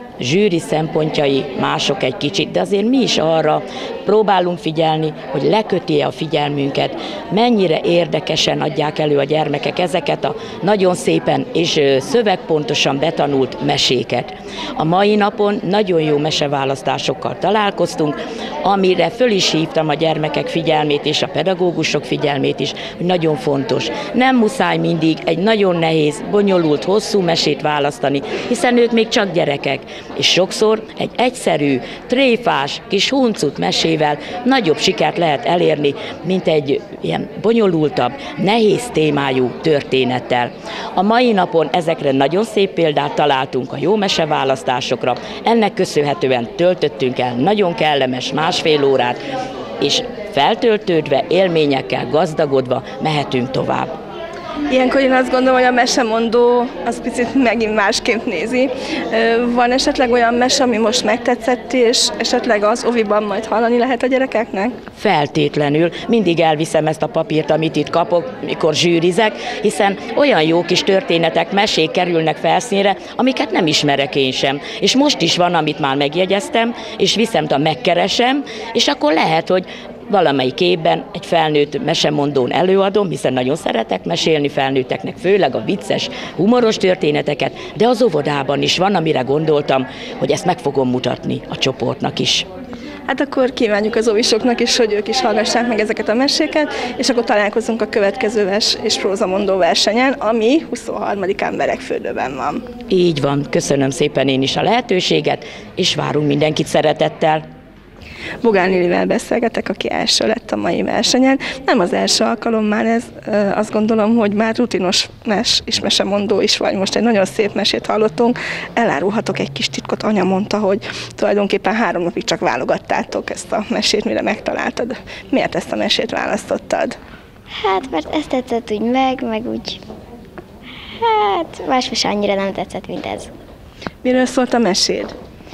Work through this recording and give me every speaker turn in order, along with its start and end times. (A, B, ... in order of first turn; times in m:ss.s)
0:00.2-0:54.0 A
0:54.7-1:04.8 B
1:05.0-1:32.5 A
1:33.1-1:42.6 B
1:42.9-1:47.4 A
1:48.4-2:07.0 B
2:07.5-2:09.8 C
2:11.0-2:13.3 C
2:14.0-2:15.1 B